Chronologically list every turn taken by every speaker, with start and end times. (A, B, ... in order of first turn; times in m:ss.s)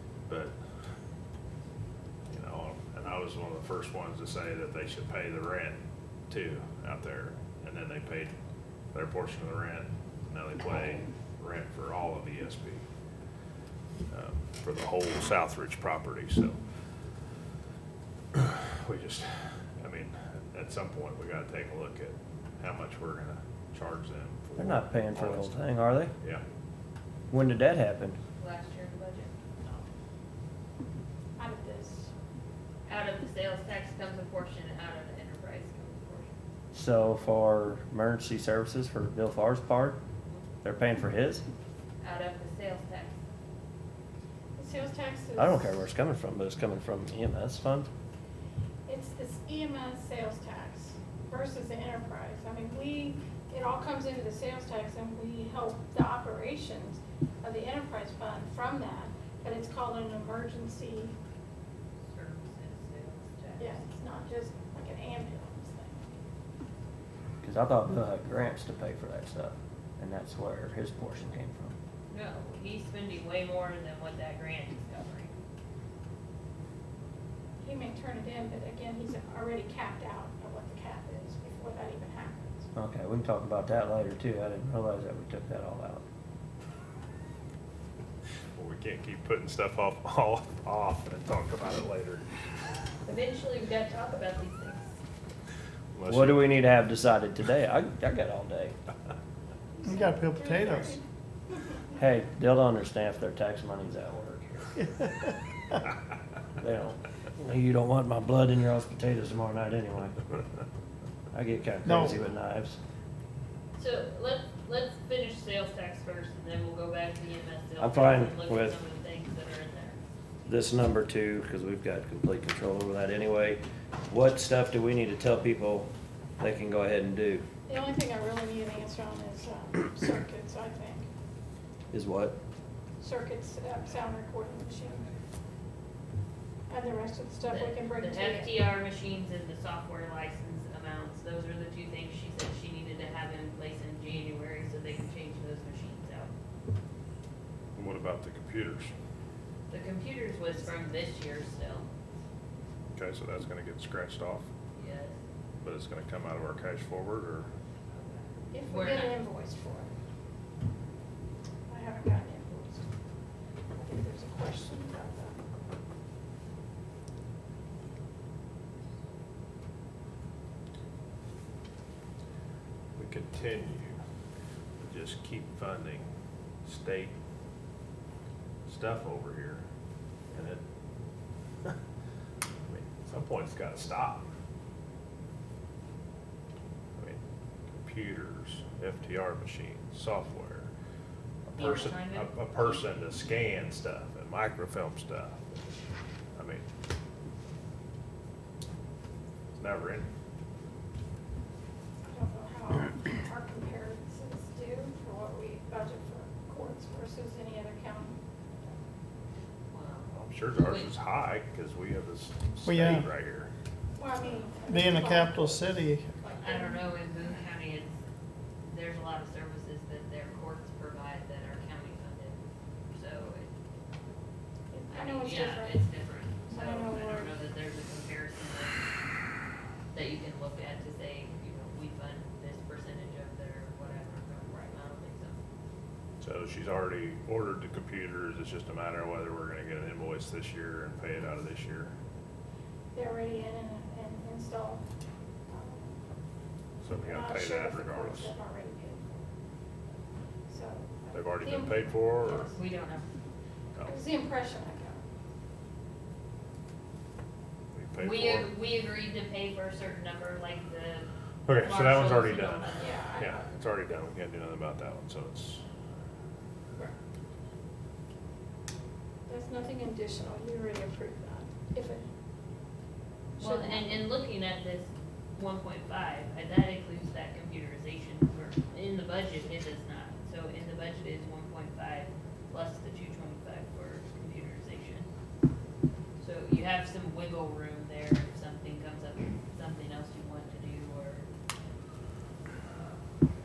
0:00.3-0:00.6 A
0:02.3-0:08.3 A
0:08.9-0:12.8 A
0:14.1-0:16.6 A
0:18.3-0:25.6 A
0:24.6-0:26.1 B
0:26.2-0:26.4 A
0:27.3-0:28.2 B
0:28.4-0:29.3 C
0:31.4-0:32.1 D
0:32.9-0:36.4 C
0:36.7-0:40.0 B
0:40.6-0:41.4 B
0:42.0-0:43.2 C
0:44.6-0:45.8 D
0:45.4-0:47.9 B
0:48.9-1:01.2 D
1:02.1-1:03.9 C
1:03.6-1:06.0 D
1:07.4-1:11.8 B
1:12.1-1:15.3 C
1:17.6-1:22.7 D
1:22.8-1:26.0 B
1:28.6-1:32.3 A
1:33.0-1:34.9 C
1:35.9-1:36.6 A
1:36.1-1:38.8 B
1:39.8-1:41.0 D
1:39.9-1:41.0 E
1:42.0-1:44.9 B
1:46.6-1:50.4 B
1:51.3-1:52.8 B
1:51.8-1:52.2 E
1:53.8-2:00.0 C
1:57.8-1:58.8 B
2:00.4-2:07.5 B
2:07.7-2:11.1 D
2:11.9-2:12.4 B
2:13.0-2:15.1 D
2:16.7-2:18.6 D
2:17.4-2:26.3 C
2:27.8-2:29.0 A
2:29.7-2:31.9 C
2:33.0-2:34.5 A
2:34.8-2:35.2 C
2:35.6-2:37.5 A
2:37.9-2:39.2 C
2:38.5-2:39.9 D
2:41.7-2:42.9 D
2:43.7-2:45.4 D
2:53.0-2:54.0 A
2:54.8-2:56.1 A
2:56.6-2:57.2 A
2:58.7-2:59.6 A
3:00.3-3:00.6 A
3:02.6-3:04.3 A
3:07.0-3:10.7 A
3:11.5-3:15.7 A
3:11.5-3:12.8 C
3:16.4-3:16.7 A
3:19.6-3:20.1 A
3:22.1-3:28.8 D
3:29.7-3:30.9 C
3:30.1-3:33.5 A
3:32.6-3:33.1 E
3:34.0-3:35.7 D
3:34.7-3:36.1 E
3:36.2-3:36.8 D
3:36.2-3:37.9 C
3:38.7-3:42.4 C
3:42.9-3:43.5 C
3:44.7-3:45.9 D
3:44.9-3:48.8 C
3:46.4-3:47.3 D
3:49.9-3:55.4 C
3:54.5-3:54.8 D
3:56.2-4:02.0 A
4:02.9-4:04.8 D
4:05.5-4:06.0 D
4:06.8-4:08.3 A
4:07.0-4:09.2 D
4:10.5-4:12.6 D
4:11.1-4:12.6 A
4:12.5-4:13.1 C
4:13.9-4:15.0 D
4:17.7-4:18.5 A
4:18.0-4:23.0 C
4:21.5-4:25.6 A
4:22.8-4:23.4 D
4:29.3-4:32.1 D
4:33.4-4:34.0 D
4:33.4-4:45.1 C
4:46.2-4:51.3 C